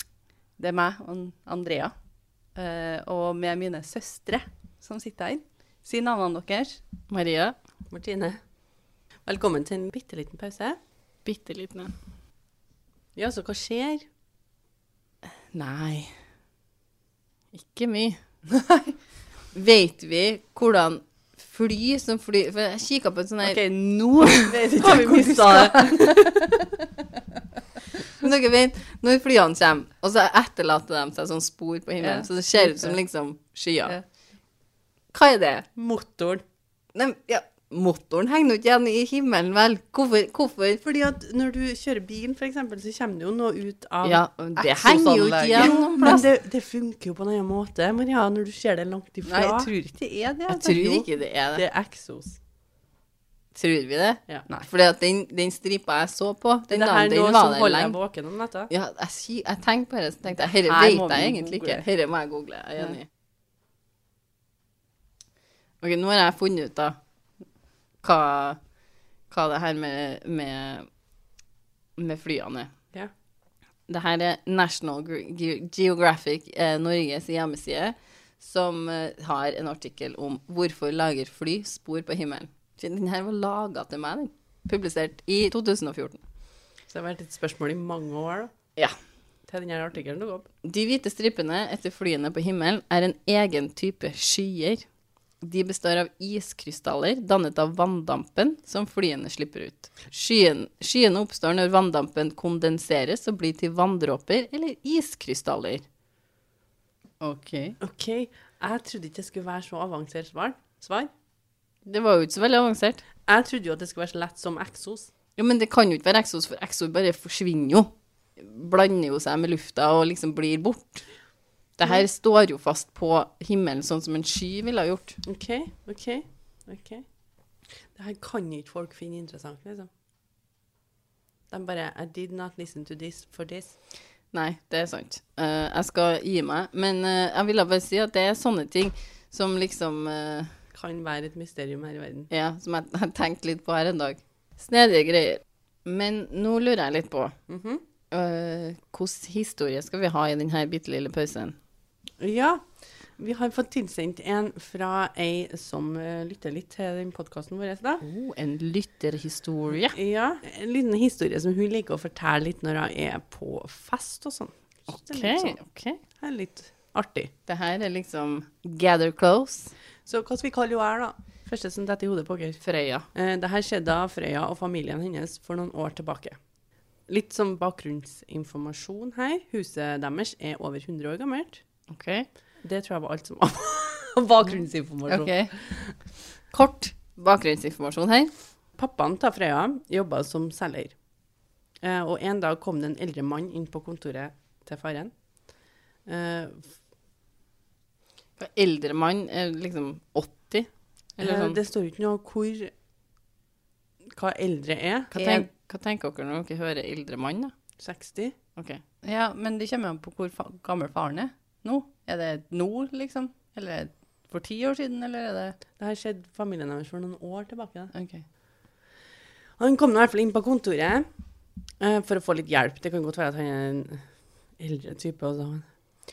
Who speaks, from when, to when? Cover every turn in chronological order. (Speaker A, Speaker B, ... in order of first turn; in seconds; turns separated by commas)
Speaker A: 0.6-1.9, Speaker A: 2.5-6.8, Speaker B: 7.1-7.6, Speaker C: 7.9-8.4, Speaker C: 9.2-10.8, Speaker B: 11.2-11.9, Speaker C: 13.2-14.1, Speaker B: 15.5-16.2, Speaker B: 17.5-18.2, Speaker A: 18.5-18.9, Speaker B: 19.5-23.6, Speaker A: 23.4-26.3, Speaker B: 24.1-24.9, Speaker C: 24.8-26.2, Speaker B: 28.2-34.0, Speaker A: 32.0-33.0, Speaker B: 35.1-35.7, Speaker C: 35.8-36.4, Speaker B: 36.9-40.8, Speaker C: 40.8-44.2, Speaker B: 44.0-46.2, Speaker A: 44.6-46.2, Speaker C: 45.6-49.8, Speaker A: 49.2-50.8, Speaker B: 50.5-51.6, Speaker C: 50.7-52.4, Speaker B: 53.5-58.0, Speaker C: 56.7-58.7, Speaker B: 58.7-63.1, Speaker A: 60.6-61.9, Speaker B: 65.8-67.0, Speaker B: 68.0-68.6, Speaker B: 69.3-70.9, Speaker B: 72.0-72.7, Speaker B: 73.9-86.2, Speaker C: 86.9-88.5, Speaker C: 89.5-90.5, Speaker B: 90.7-94.9, Speaker B: 95.4-105.8, Speaker A: 107.2-107.8, Speaker C: 107.8-111.1, Speaker B: 111.9-113.0, Speaker C: 113.3-115.1, Speaker B: 115.4-121.1, Speaker B: 121.8-125.2, Speaker C: 125.2-127.0, Speaker C: 128.0-129.9, Speaker C: 131.5-133.8, Speaker B: 134.3-140.5, Speaker C: 140.7-142.3, Speaker B: 142.3-147.3, Speaker C: 147.5-147.8, Speaker B: 148.1-151.6, Speaker C: 152.2-158.0, Speaker B: 158.0-160.0, Speaker C: 159.9-165.6, Speaker B: 164.9-166.0, Speaker C: 166.2-167.3, Speaker B: 167.5-169.7, Speaker C: 170.1-176.4, Speaker B: 172.6-173.1, Speaker C: 177.1-181.6, Speaker B: 181.9-182.3, Speaker C: 182.6-185.9, Speaker A: 185.1-185.5, Speaker B: 186.5-188.3, Speaker C: 188.8-191.0, Speaker C: 191.8-195.1, Speaker C: 196.1-196.7, Speaker B: 198.4-201.6, Speaker C: 201.2-202.7, Speaker C: 204.2-205.4, Speaker B: 205.1-207.5, Speaker A: 205.2-205.5, Speaker C: 207.8-208.3, Speaker B: 208.6-208.8, Speaker A: 209.0-215.6, Speaker C: 215.8-217.9, Speaker A: 217.9-218.2, Speaker C: 219.6-221.1, Speaker C: 221.8-225.7